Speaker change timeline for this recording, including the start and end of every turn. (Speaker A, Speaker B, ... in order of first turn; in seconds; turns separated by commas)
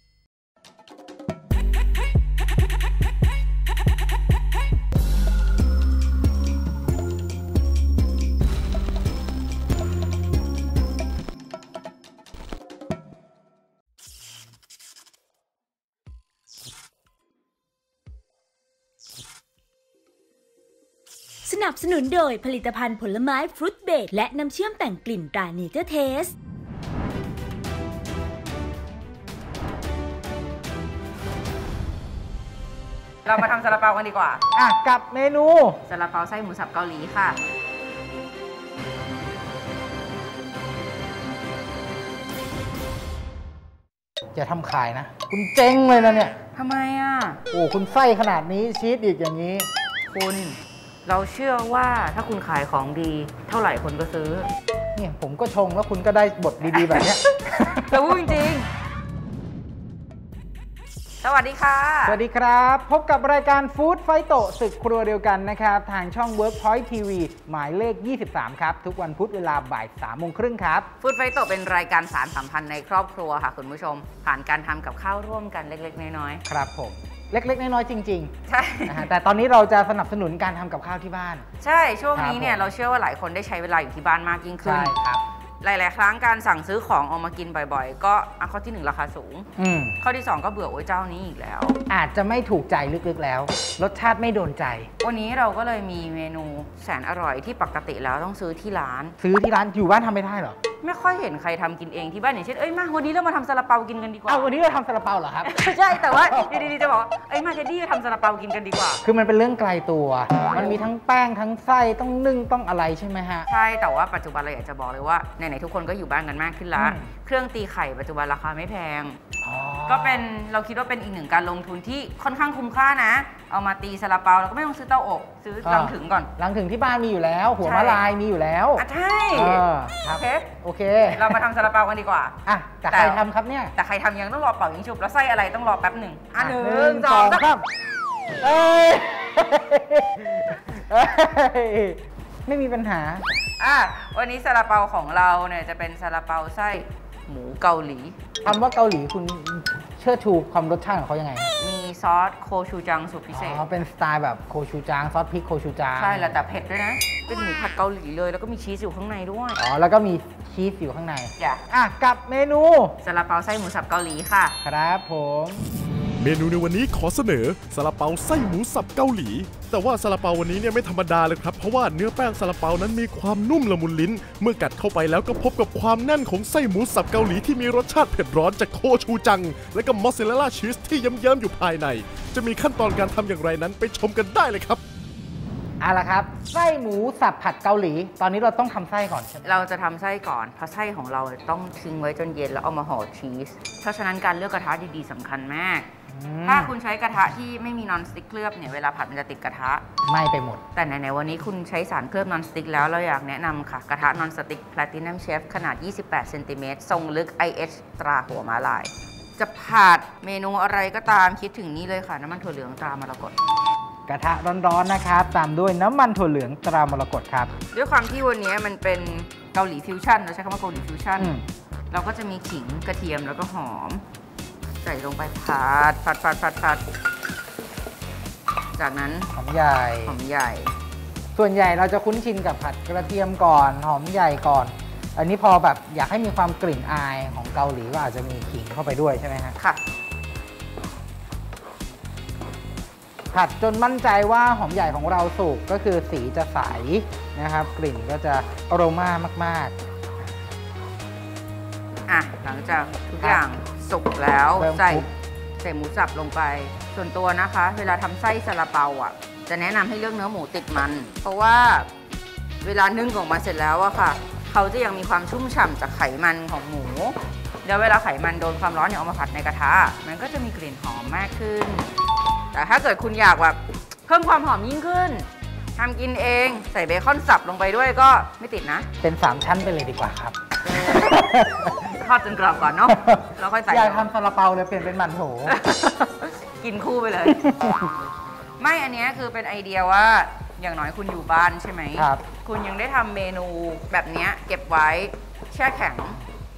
Speaker A: 21.4-26.3, Speaker B: 33.2-34.4, Speaker C: 34.5-35.8, Speaker B: 35.9-37.4, Speaker C: 44.3-46.4, Speaker B: 46.5-47.4, Speaker C: 47.5-49.7, Speaker B: 50.1-54.5, Speaker C: 55.0-58.4, Speaker B: 56.7-57.1, Speaker B: 57.8-58.7, Speaker B: 61.2-62.2, Speaker C: 62.0-70.9, Speaker B: 71.0-76.4, Speaker C: 76.5-78.3, Speaker B: 78.5-79.1, Speaker C: 78.8-81.5, Speaker B: 81.6-84.9, Speaker C: 82.1-82.7, Speaker C: 84.6-85.2, Speaker B: 85.6-89.5, Speaker C: 89.6-90.0, Speaker B: 90.0-91.8, Speaker C: 91.9-94.9, Speaker B: 95.0-99.1, Speaker C: 99.2-100.6, Speaker B: 100.8-104.5, Speaker C: 104.3-106.7, Speaker B: 105.4-109.0, Speaker C: 109.0-113.5, Speaker B: 110.5-110.8, Speaker B: 113.5-119.2, Speaker C: 116.7-117.1, Speaker C: 119.4-120.2, Speaker B: 119.9-126.3, Speaker C: 125.6-131.4, Speaker B: 127.6-128.0, Speaker B: 128.8-130.5, Speaker B: 131.1-132.3, Speaker C: 132.4-133.7, Speaker B: 132.9-133.2, Speaker B: 133.7-137.4, Speaker C: 136.3-137.6, Speaker C: 138.4-143.2, Speaker B: 143.6-148.3, Speaker C: 148.4-151.5, Speaker B: 151.6-153.7, Speaker C: 153.3-156.4, Speaker B: 155.9-159.6, Speaker C: 159.6-162.9, Speaker B: 163.0-164.6, Speaker C: 164.6-165.6, Speaker D: 166.2-184.8, Speaker C: 185.8-189.7, Speaker B: 189.4-195.9, Speaker C: 196.1-196.7, Speaker B: 196.4-199.8, Speaker C: 200.1-200.6, Speaker B: 200.7-213.3, Speaker C: 214.1-217.5, Speaker B: 217.7-221.3, Speaker B: 221.9-224.0, Speaker B: 224.8-226.8, Speaker B: 228.8-229.3, Speaker C: 229.3-230.1, Speaker B: 230.0-230.7, Speaker C: 231.3-239.6, Speaker C: 243.3-249.7, Speaker B: 252.1-255.1, Speaker C: 254.6-255.1, Speaker B: 255.6-261.9, Speaker B: 262.6-271.9, Speaker B: 272.5-278.9, Speaker C: 279.0-281.9, Speaker B: 281.9-284.1, Speaker C: 282.9-285.5, Speaker B: 285.4-287.8, Speaker C: 287.4-287.7, Speaker B: 288.6-296.2, Speaker C: 291.9-292.2